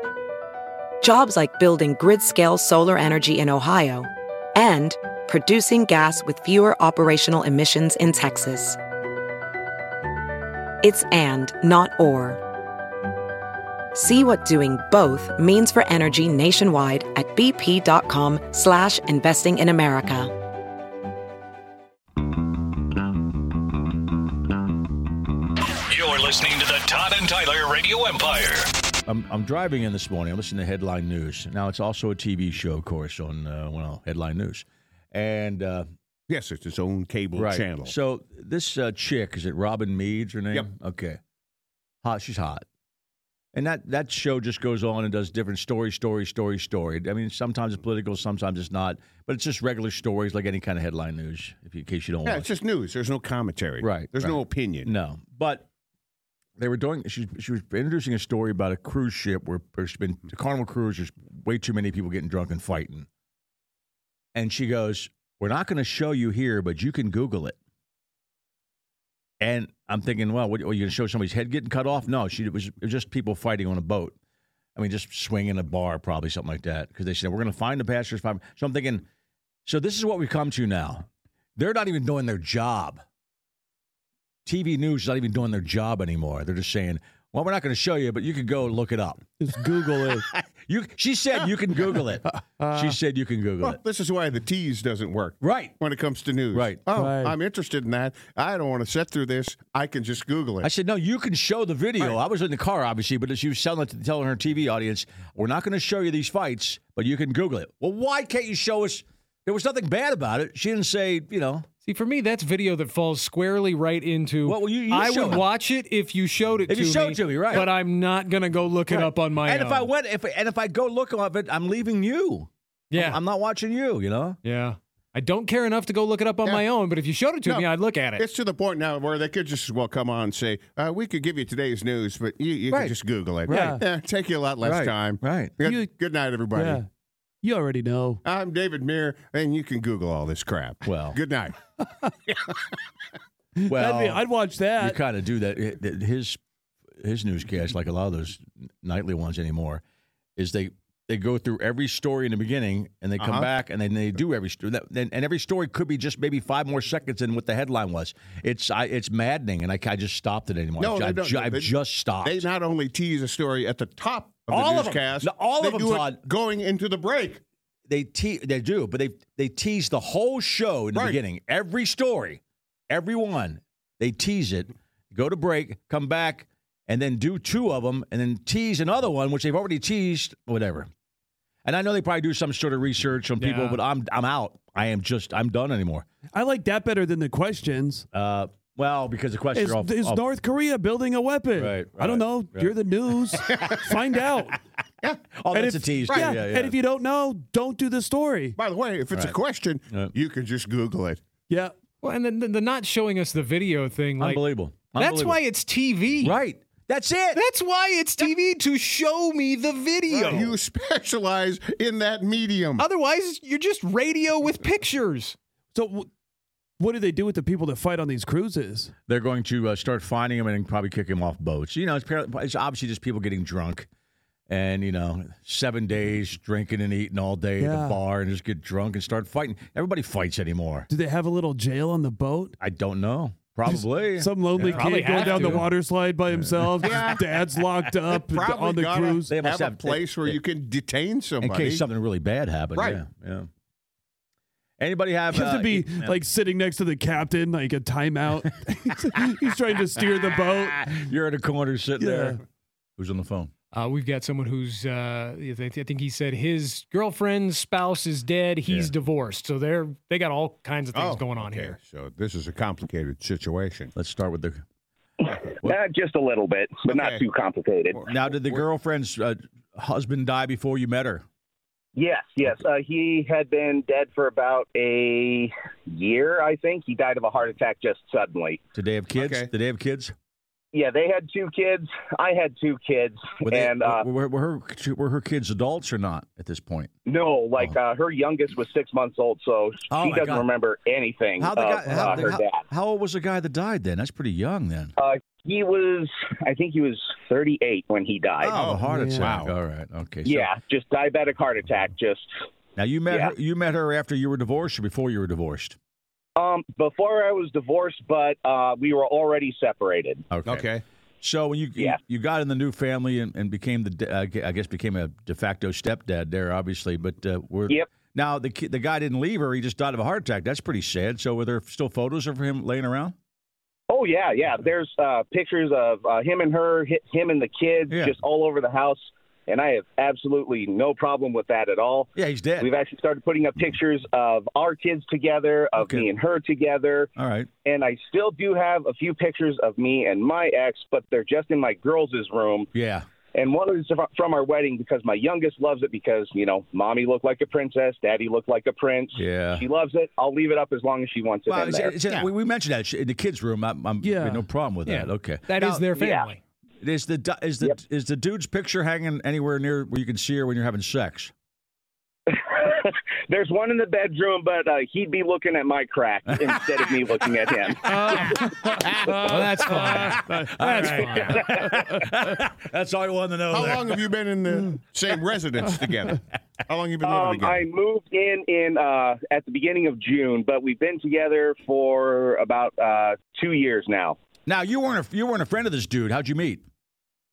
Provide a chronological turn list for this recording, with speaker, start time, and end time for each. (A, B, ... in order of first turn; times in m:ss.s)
0:01.0-0:08.8 A
0:10.8-0:12.4 A
0:13.9-0:20.3 A
0:25.9-0:28.7 B
0:29.1-0:35.9 C
0:36.3-0:38.0 D
0:37.4-0:41.2 C
0:42.0-0:42.6 C
0:43.5-0:52.5 C
0:52.2-0:54.9 D
0:53.8-0:55.7 C
0:56.6-1:03.1 C
1:04.4-1:07.6 C
1:09.4-1:14.2 C
1:14.8-1:19.1 C
1:19.6-1:23.0 C
1:24.4-1:29.2 C
1:29.4-1:30.3 E
1:30.0-1:33.8 C
1:32.3-1:33.0 E
1:33.6-1:40.7 D
1:35.4-1:35.8 C
1:36.5-1:36.8 C
1:37.0-1:37.4 E
1:40.6-1:51.7 C
1:51.9-1:59.9 F
1:54.4-1:55.5 C
1:56.7-1:57.7 C
1:58.9-2:04.4 C
2:02.9-2:03.2 F
2:04.4-2:08.2 F
2:07.4-2:16.8 D
2:13.5-2:13.8 C
2:13.5-2:13.8 E
2:14.6-2:15.5 C
2:15.6-2:15.9 E
2:16.5-2:16.9 E
2:17.4-2:18.2 E
2:18.2-2:21.6 D
2:20.8-2:21.2 C
2:22.3-2:22.8 D
2:23.6-2:25.0 E
2:23.7-2:24.2 C
2:24.8-2:26.4 C
2:27.0-2:29.8 C
2:30.4-2:42.5 C
2:33.2-2:33.5 D
2:40.8-2:47.4 D
2:44.5-2:46.2 C
2:47.9-3:00.9 C
2:50.9-2:51.2 D
3:01.6-3:06.1 C
3:03.4-3:03.8 F
3:06.3-3:08.1 E
3:08.1-3:10.2 C
3:09.5-3:14.6 E
3:11.6-3:12.7 C
3:13.5-3:14.0 D
3:15.4-3:16.8 C
3:15.5-3:18.6 E
3:16.1-3:16.3 D
3:18.6-3:21.2 D
3:22.0-3:24.4 F
3:24.2-3:25.4 C
3:25.0-3:26.4 F
3:26.2-3:27.4 C
3:27.3-3:30.5 F
3:30.1-3:32.9 D
3:32.8-3:35.4 F
3:35.7-3:36.1 E
3:36.8-3:38.9 E
3:39.1-3:43.9 C
3:44.5-3:50.9 C
3:47.6-3:48.0 E
3:50.9-3:52.6 E
3:52.6-3:55.7 C
3:53.7-3:59.3 E
3:54.6-3:55.7 F
3:56.3-3:57.2 C
3:56.8-3:57.2 D
3:58.1-4:01.8 D
3:59.3-4:00.4 C
4:01.4-4:03.5 C
4:02.8-4:03.0 D
4:04.8-4:06.2 C
4:05.3-4:11.1 E
4:10.5-4:12.4 C
4:12.0-4:12.4 E
4:13.0-4:13.5 C
4:13.7-4:21.8 F
4:20.9-4:23.9 D
4:24.0-4:24.6 C
4:25.2-4:28.0 G
4:26.9-4:27.2 D
4:27.9-4:28.7 D
4:28.1-4:31.2 C
4:32.0-4:38.6 G
4:38.8-4:40.1 C
4:39.2-4:39.5 D
4:40.7-4:44.0 G
4:43.4-4:46.9 C
4:47.1-4:52.6 G
4:49.9-4:50.5 C
4:51.4-4:54.9 C
4:51.9-4:52.3 E
4:55.0-4:58.6 G
4:58.4-5:00.5 C
4:58.5-4:59.5 D
4:58.8-4:59.4 E
5:00.3-5:02.3 G
5:02.8-5:05.8 C
5:06.4-5:10.2 G
5:10.3-5:10.7 C
5:10.4-5:10.8 D
5:11.2-5:23.2 C
5:23.9-5:37.1 G
5:27.9-5:28.2 C
5:32.2-5:32.7 C
5:35.8-5:36.1 C
5:37.2-5:37.5 C
5:37.6-5:42.7 G
5:42.8-5:43.1 C
5:43.3-5:52.0 G
5:49.2-5:49.6 C
5:51.5-5:55.9 C
5:54.0-5:54.4 E
5:54.9-5:56.4 F
5:56.0-5:56.3 G
5:56.8-6:01.3 C
6:02.3-6:08.5 G
6:07.8-6:12.3 E
6:08.9-6:11.5 F
6:09.2-6:14.0 C
6:13.5-6:17.7 D
6:17.0-6:24.2 G
6:24.5-6:26.6 C